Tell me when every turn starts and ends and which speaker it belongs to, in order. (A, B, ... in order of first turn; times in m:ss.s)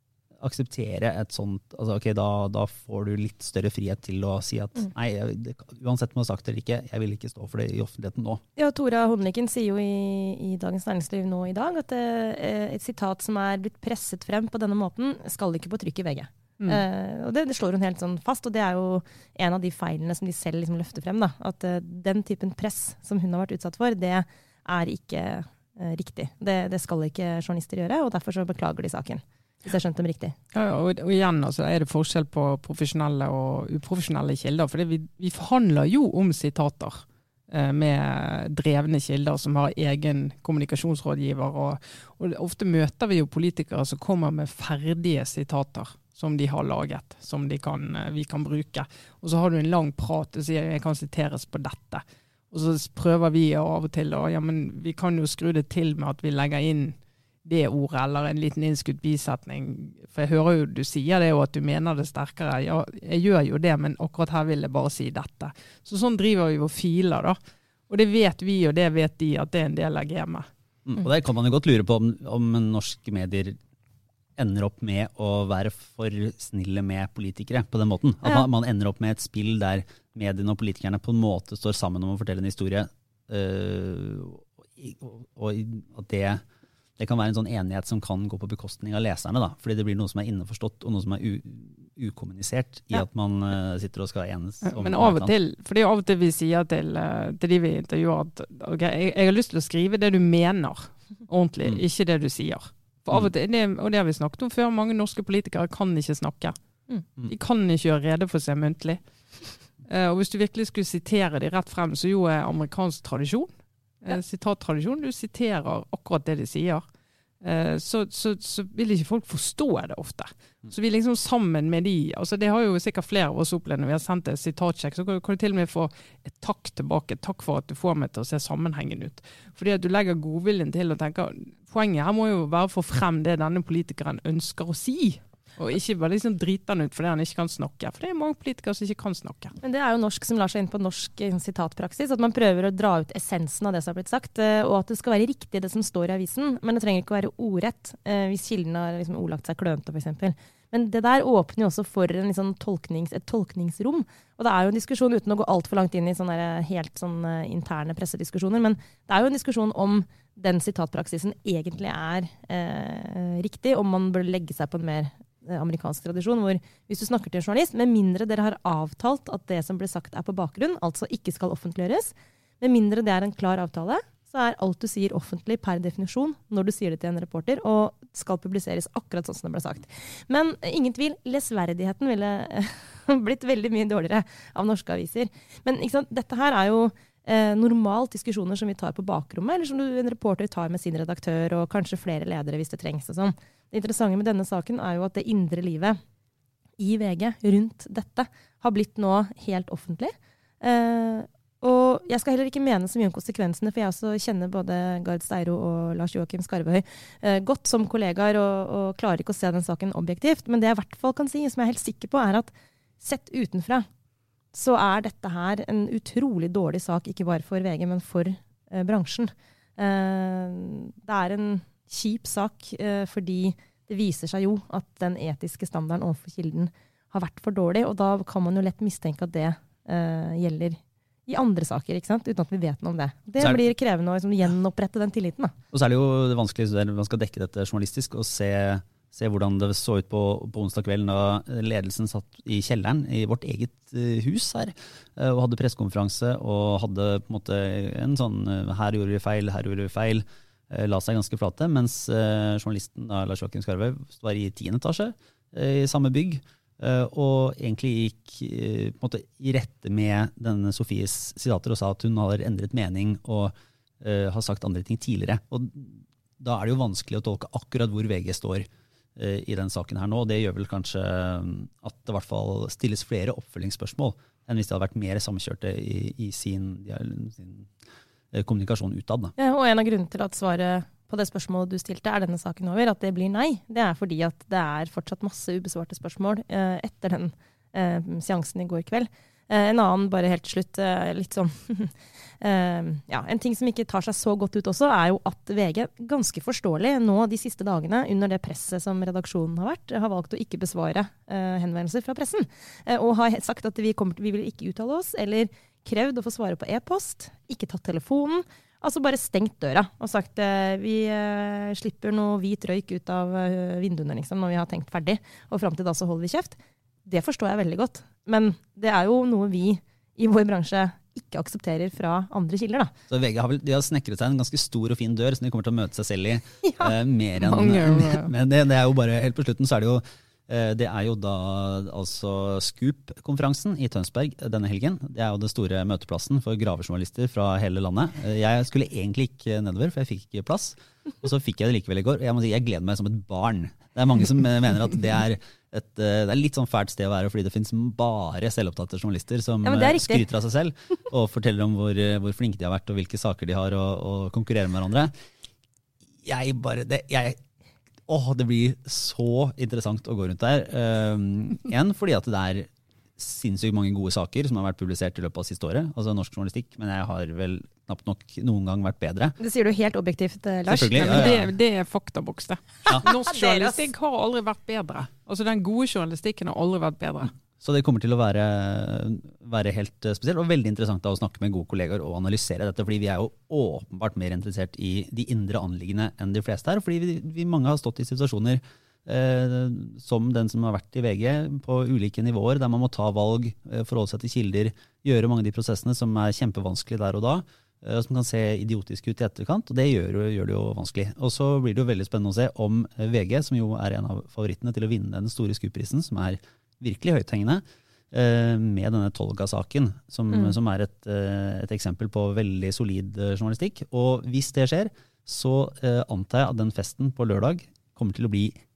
0:00.4-0:08.4 A
0:08.6-0:30.3 B
0:30.5-1:07.4 C
1:07.9-1:10.5 C
1:10.8-1:13.6 A
1:14.4-1:26.4 A
1:27.0-1:35.3 A
1:34.6-1:46.5 C
1:47.3-1:49.0 C
1:49.8-1:56.8 C
1:57.4-2:19.6 C
2:19.6-3:16.0 B
3:16.8-3:33.9 B
3:34.5-3:55.5 B
3:55.7-4:37.7 A
4:38.3-4:39.3 A
4:39.4-5:22.9 B
5:23.1-5:55.1 A
5:27.4-5:28.3 C
5:49.6-5:50.3 B
5:56.2-5:57.4 A
5:58.1-6:09.3 A
6:09.4-6:11.4 B
6:10.7-6:11.5 A
6:11.0-6:17.3 C
6:12.9-6:13.9 B
6:17.6-6:58.5 A